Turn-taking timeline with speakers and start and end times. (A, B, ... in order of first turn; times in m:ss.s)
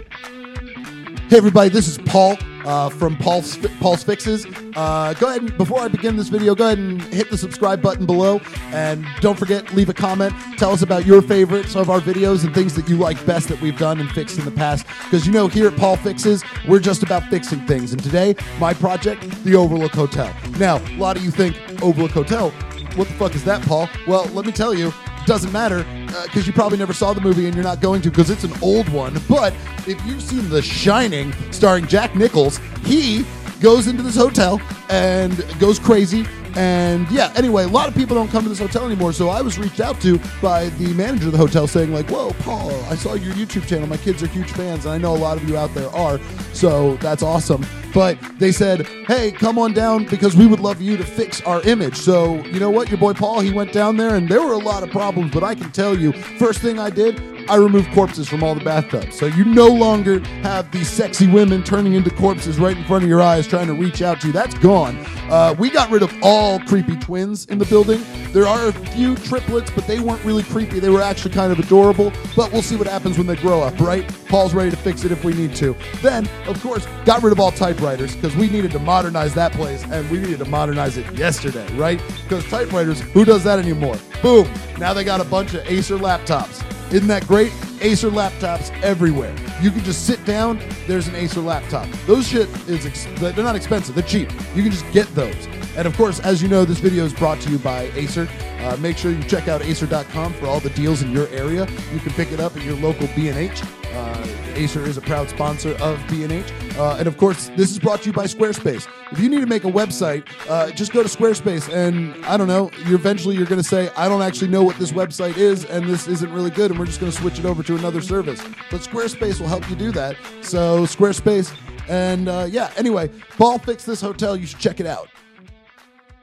0:01.3-2:05.1 A